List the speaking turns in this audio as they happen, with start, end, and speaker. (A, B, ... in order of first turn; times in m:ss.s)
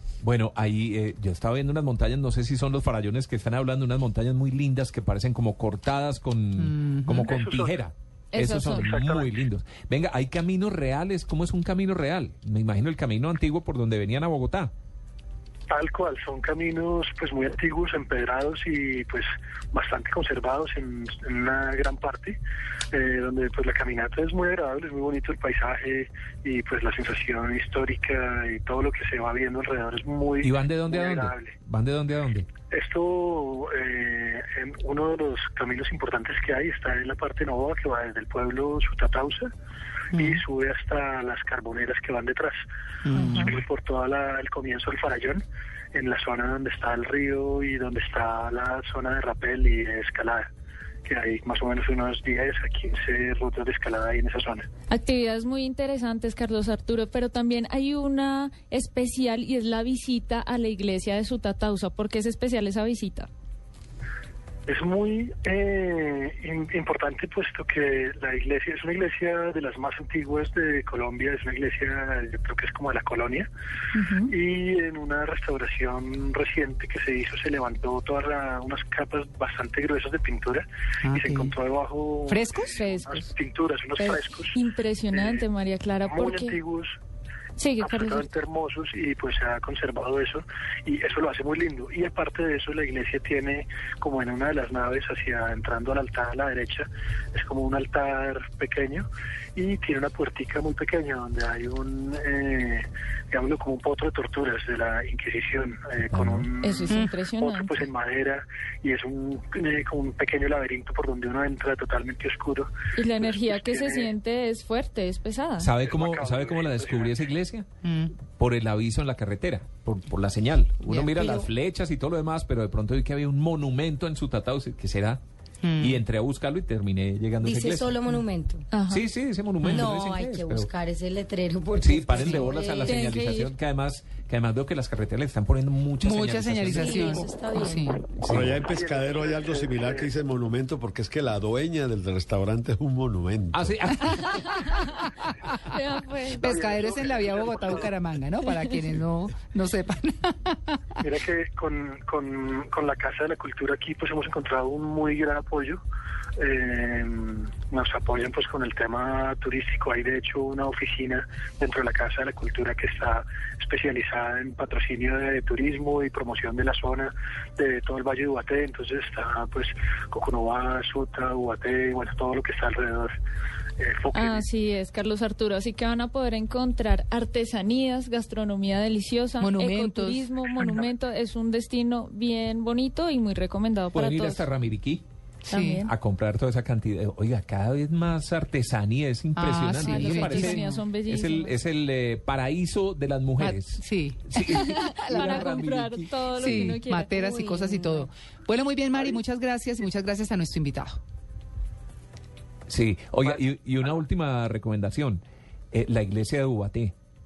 0:00.2-0:14.7 A
0:06.6-0:07.1 B
0:07.1-0:07.8 C
0:08.3-0:08.9 D
0:08.4-0:09.4 C
0:15.7-0:22.4 C
0:22.9-0:31.6 C
0:30.4-0:32.5 A
0:32.7-0:39.5 C
0:40.1-0:42.6 C
0:40.1-0:40.4 B
0:43.1-0:43.5 B
0:43.1-0:43.5 D
0:43.4-0:45.4 C
0:45.9-0:50.4 C
0:51.0-0:54.7 C
0:54.9-1:03.3 D
1:04.7-1:13.5 C
1:14.2-1:24.6 C
1:21.1-1:21.5 B
1:22.3-1:23.3 B
1:24.0-1:26.6 D
1:25.1-1:25.4 C
1:26.0-1:27.0 C
1:27.6-1:28.3 D
1:27.8-1:54.1 C
1:46.1-1:46.5 A
1:46.6-1:47.8 D
1:46.9-1:47.2 B
1:53.0-1:55.7 D
1:55.6-1:57.7 A
1:55.8-1:57.3 C
1:57.8-1:58.1 B
1:58.2-2:05.2 A
2:00.8-2:01.1 B
2:01.2-2:01.5 E
2:05.6-2:06.0 B
2:05.8-2:07.9 A
2:07.4-2:08.8 E
2:08.7-2:09.0 D
2:08.9-2:10.7 A
2:09.7-2:13.1 E
2:11.8-2:17.3 A
2:12.2-2:12.5 B
2:12.8-2:13.5 D
2:16.0-2:18.1 B
2:16.7-2:17.9 E
2:18.2-2:18.6 A
2:18.2-2:24.0 F
2:18.5-2:20.1 C
2:23.5-2:24.6 A
2:24.3-2:24.7 D
2:25.7-2:26.5 D
2:26.2-2:28.2 C
2:26.4-2:30.7 B
2:28.5-2:28.7 D
2:31.0-2:35.8 C
2:36.4-2:53.1 C
2:53.8-2:54.5 C
2:54.1-3:04.4 D
2:59.4-3:00.8 B
3:03.9-3:05.0 A
3:05.4-3:05.9 B
3:05.5-3:05.9 D
3:05.8-3:16.1 A
3:09.4-3:10.8 B
3:09.8-3:11.6 D
3:13.4-3:15.7 B
3:14.5-3:18.1 D
3:16.3-3:21.0 B
3:22.7-3:26.9 A